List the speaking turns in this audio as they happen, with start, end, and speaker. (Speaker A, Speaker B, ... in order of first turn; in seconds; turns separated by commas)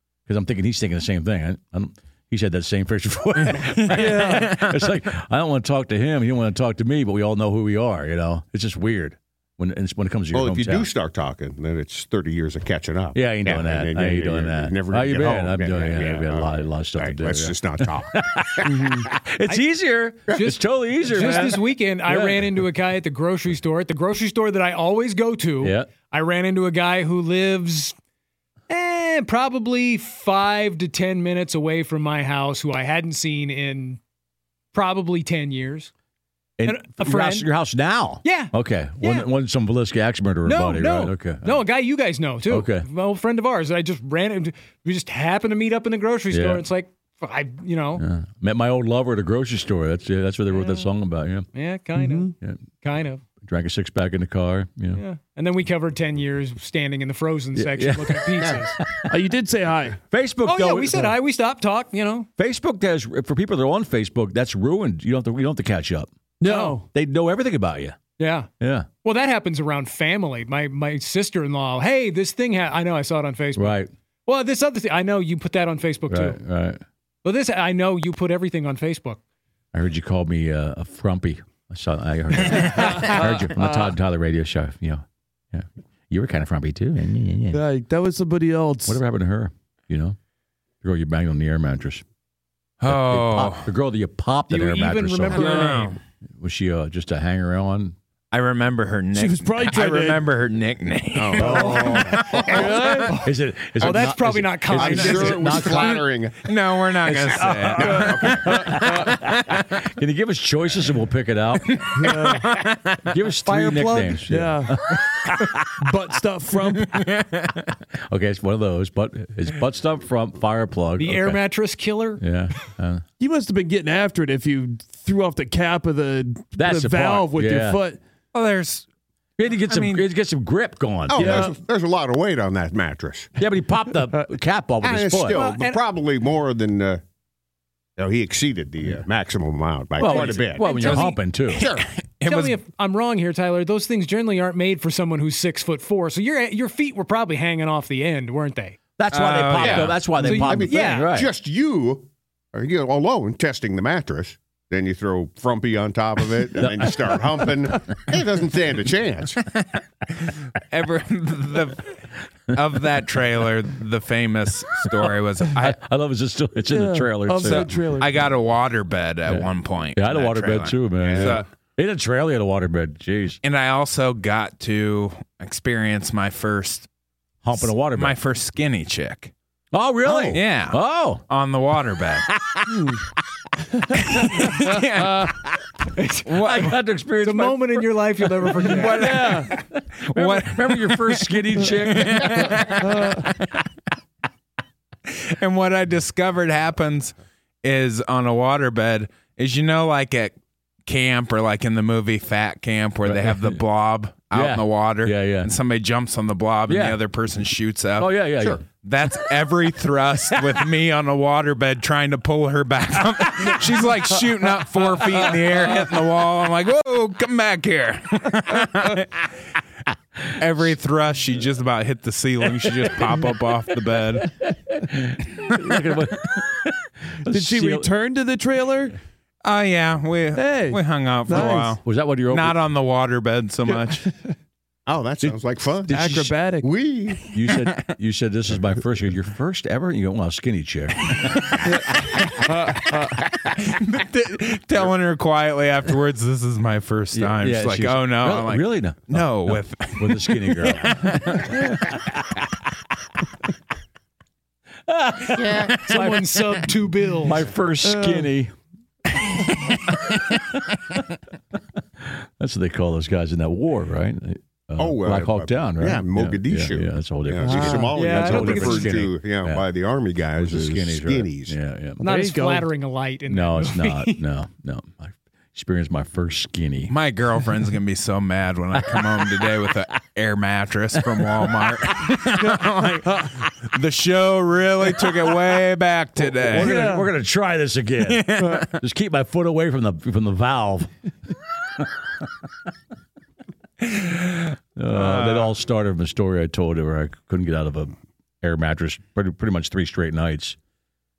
Speaker A: 0.3-10.9, Speaker B: 3.5-4.9, Speaker C: 3.9-4.5, Speaker D: 10.3-19.1, Speaker A: 13.1-22.6, Speaker C: 18.6-19.1, Speaker E: 20.3-28.0, Speaker A: 25.6-25.9, Speaker E: 28.7-34.0, Speaker E: 34.7-35.9, Speaker A: 36.6-41.6, Speaker E: 36.6-37.5, Speaker E: 38.2-39.3, Speaker E: 40.5-48.0, Speaker A: 42.5-42.9, Speaker A: 46.3-46.6, Speaker A: 48.0-51.5, Speaker E: 50.5-50.9, Speaker E: 51.5-52.3, Speaker C: 52.0-52.3, Speaker E: 52.8-53.2, Speaker A: 53.4-55.0, Speaker E: 54.9-58.8, Speaker A: 57.5-59.2, Speaker C: 59.1-60.0, Speaker A: 60.1-61.1, Speaker E: 60.4-62.3, Speaker A: 62.4-66.1, Speaker C: 66.4-66.9, Speaker E: 66.4-66.8, Speaker A: 66.9-68.0, Speaker E: 68.2-68.5, Speaker A: 68.6-68.9, Speaker E: 69.0-76.4, Speaker A: 73.6-73.9, Speaker A: 76.1-76.8, Speaker E: 77.2-79.2, Speaker A: 79.7-87.6, Speaker C: 82.5-83.9, Speaker C: 87.5-89.0, Speaker A: 88.9-90.2, Speaker A: 90.8-92.0, Speaker B: 92.8-93.7, Speaker A: 92.8-95.8, Speaker E: 94.5-96.0, Speaker C: 95.3-95.9, Speaker B: 95.5-95.9, Speaker A: 96.4-98.0, Speaker B: 98.3-103.1, Speaker C: 99.1-100.3, Speaker D: 101.2-103.1, Speaker C: 101.4-103.2, Speaker A: 101.4-102.0, Speaker A: 103.2-106.1, Speaker E: 103.8-105.8, Speaker D: 104.7-106.5, Speaker B: 106.5-109.7, Speaker D: 107.1-108.8, Speaker A: 107.3-111.8, Speaker C: 107.7-109.2, Speaker B: 111.8-113.0, Speaker C: 112.0-112.5, Speaker A: 113.0-115.9, Speaker E: 113.5-114.2, Speaker C: 114.3-114.8, Speaker C: 115.8-117.1, Speaker B: 116.9-117.7, Speaker A: 118.0-121.4, Speaker E: 121.0-122.2, Speaker A: 122.2-123.0, Speaker C: 123.2-128.0, Speaker A: 126.6-127.8, Speaker B: 128.3-128.9, Speaker A: 129.4-131.5, Speaker B: 129.7-130.1, Speaker D: 131.1-133.3, Speaker C: 131.1-131.5, Speaker A: 133.4-135.4, Speaker D: 134.8-137.0, Speaker E: 135.3-135.8, Speaker D: 138.0-141.9, Speaker A: 140.0-141.7, Speaker E: 140.0-141.2, Speaker B: 141.6-142.6, Speaker E: 142.2-148.8, Speaker A: 149.0-151.3, Speaker B: 149.1-150.0, Speaker D: 149.6-159.4, Speaker E: 150.2-151.1, Speaker A: 156.6-157.2, Speaker B: 160.2-165.8, Speaker A: 165.5-167.8, Speaker C: 166.7-168.2, Speaker B: 167.4-171.4, Speaker A: 169.3-173.4, Speaker D: 171.0-171.4, Speaker B: 173.4-176.9, Speaker A: 177.4-178.2, Speaker B: 177.5-179.3, Speaker A: 179.7-181.2, Speaker D: 180.1-180.4, Speaker B: 180.3-182.3, Speaker A: 182.3-183.0, Speaker C: 182.7-183.0, Speaker B: 183.9-185.3, Speaker A: 184.1-185.3, Speaker E: 186.0-186.6, Speaker A: 186.3-193.3, Speaker E: 187.2-189.0, Speaker C: 188.7-189.5, Speaker B: 188.8-193.4, Speaker C: 192.8-193.2, Speaker B: 195.1-200.3, Speaker B: 200.9-208.2, Speaker A: 203.0-203.6, Speaker A: 204.3-205.5, Speaker A: 206.7-207.0, Speaker A: 208.0-208.6, Speaker B: 208.8-219.2, Speaker B: 220.4-224.3, Speaker A: 224.2-227.9, Speaker B: 225.5-225.8, Speaker C: 227.3-229.0, Speaker B: 229.4-234.1, Speaker C: 230.3-231.8, Speaker A: 231.8-232.6, Speaker C: 233.7-234.3, Speaker D: 234.9-237.3, Speaker A: 235.9-236.3, Speaker C: 235.9-236.7, Speaker A: 237.3-241.6, Speaker B: 241.4-251.9, Speaker C: 241.7-243.2, Speaker A: 247.1-252.4, Speaker A: 254.9-256.2, Speaker D: 255.4-255.8, Speaker E: 255.9-257.5, Speaker A: 257.2-258.5, Speaker C: 257.8-258.3, Speaker A: 259.9-260.4, Speaker A: 262.0-269.6, Speaker D: 264.8-271.6, Speaker C: 267.4-268.0, Speaker E: 267.9-269.0, Speaker A: 270.4-272.0, Speaker C: 272.0-272.7, Speaker E: 272.0-274.2, Speaker A: 273.3-276.9, Speaker B: 276.9-286.9, Speaker A: 278.8-279.4, Speaker A: 281.0-282.0, Speaker A: 286.4-290.9, Speaker C: 286.5-287.1, Speaker B: 288.0-288.7, Speaker B: 293.9-295.5, Speaker A: 294.8-300.6